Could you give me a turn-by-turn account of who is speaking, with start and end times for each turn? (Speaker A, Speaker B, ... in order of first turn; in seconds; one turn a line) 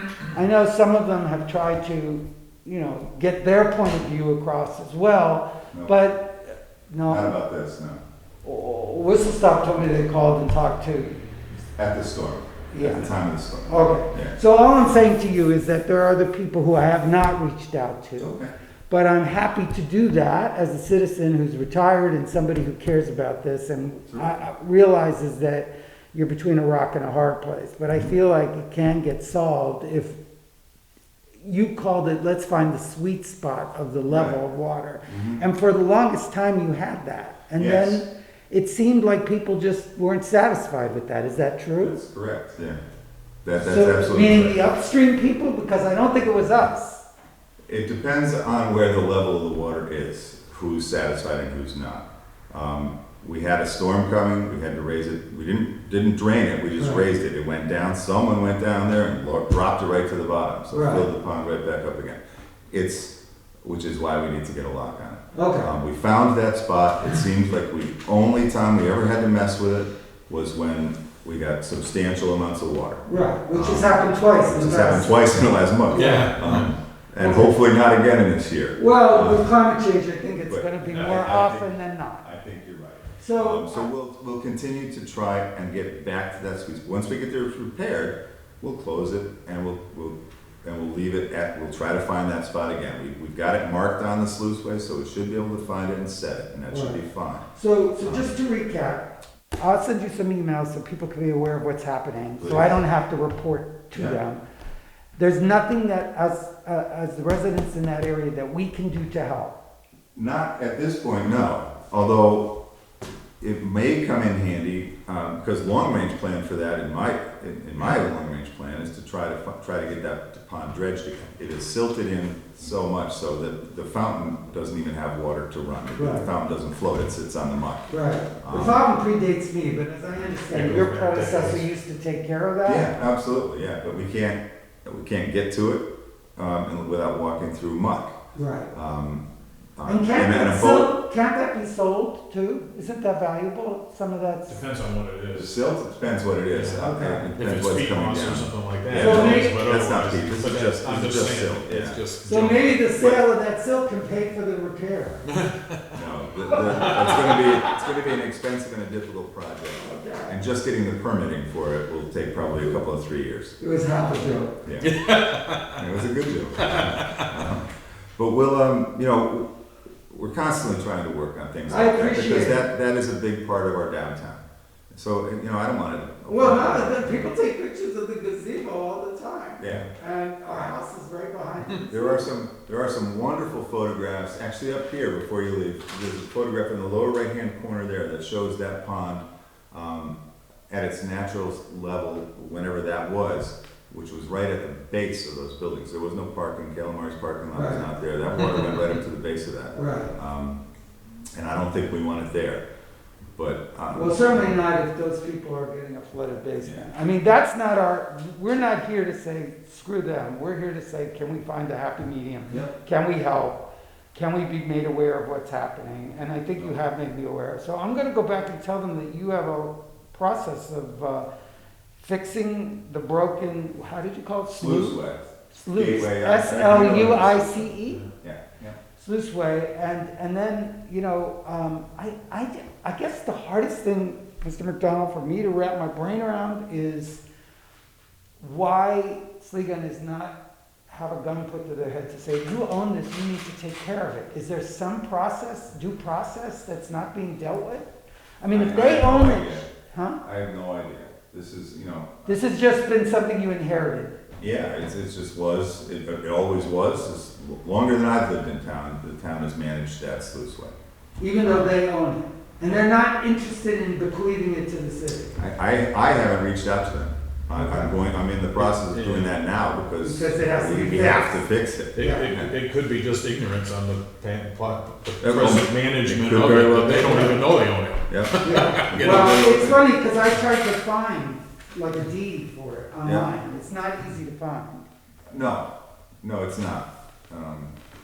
Speaker A: 0.3-7.4
Speaker B: 7.0-8.0
Speaker A: 8.4-11.2
Speaker B: 11.8-14.4
Speaker A: 12.7-13.1
Speaker A: 13.7-18.4
Speaker B: 18.2-18.5
Speaker A: 18.9-30.2
Speaker B: 24.1-24.3
Speaker A: 31.4-42.0
Speaker B: 34.1-34.4
Speaker B: 35.1-35.4
Speaker B: 37.6-38.0
Speaker B: 41.8-42.8
Speaker B: 43.5-44.6
Speaker A: 43.5-47.0
Speaker B: 47.7-79.5
Speaker A: 56.8-57.0
Speaker A: 60.7-61.1
Speaker A: 65.3-65.7
Speaker A: 73.1-75.1
Speaker A: 75.9-76.3
Speaker C: 75.9-76.7
Speaker A: 77.2-77.6
Speaker A: 78.8-82.2
Speaker B: 80.5-97.5
Speaker A: 83.2-83.9
Speaker A: 96.7-97.0
Speaker A: 97.5-104.4
Speaker B: 98.0-98.3
Speaker B: 102.4-102.8
Speaker A: 105.2-109.6
Speaker B: 110.2-112.5
Speaker B: 113.4-127.9
Speaker A: 126.0-126.3
Speaker A: 127.9-132.9
Speaker B: 128.4-128.8
Speaker C: 130.5-131.6
Speaker B: 132.7-138.2
Speaker A: 138.3-138.7
Speaker B: 138.7-139.2
Speaker B: 139.8-140.9
Speaker A: 139.9-144.6
Speaker C: 144.5-145.5
Speaker B: 145.3-152.0
Speaker C: 146.5-152.9
Speaker A: 146.8-147.3
Speaker A: 148.9-149.6
Speaker A: 152.2-155.2
Speaker C: 155.3-155.8
Speaker B: 155.9-163.6
Speaker C: 156.7-157.7
Speaker A: 159.7-160.4
Speaker A: 163.6-164.6
Speaker B: 164.6-165.0
Speaker C: 164.8-165.8
Speaker B: 165.8-169.5
Speaker C: 166.6-167.4
Speaker B: 170.1-177.3
Speaker A: 171.7-172.7
Speaker A: 176.3-182.3
Speaker B: 179.6-179.9
Speaker B: 181.8-190.2
Speaker B: 190.7-200.6
Speaker A: 197.5-197.9
Speaker A: 199.8-200.2
Speaker B: 201.3-202.7
Speaker B: 203.3-204.6
Speaker A: 203.9-221.3
Speaker B: 206.6-206.9
Speaker A: 222.0-225.0
Speaker B: 224.5-227.7
Speaker A: 225.5-228.1
Speaker B: 228.2-228.8
Speaker A: 229.0-237.2
Speaker A: 238.4-240.4
Speaker A: 240.9-247.9
Speaker A: 248.4-250.2
Speaker B: 248.5-249.7
Speaker B: 250.2-252.2
Speaker A: 252.3-254.2
Speaker B: 254.4-260.8
Speaker A: 261.2-265.4
Speaker B: 265.4-272.6
Speaker A: 267.5-268.0
Speaker C: 268.6-269.4
Speaker A: 270.0-271.4
Speaker C: 271.9-279.6
Speaker A: 272.0-272.3
Speaker B: 275.2-277.4
Speaker A: 277.0-277.4
Speaker B: 278.1-279.8
Speaker A: 278.4-284.9
Speaker B: 283.0-283.3
Speaker B: 285.3-285.7
Speaker B: 286.2-287.8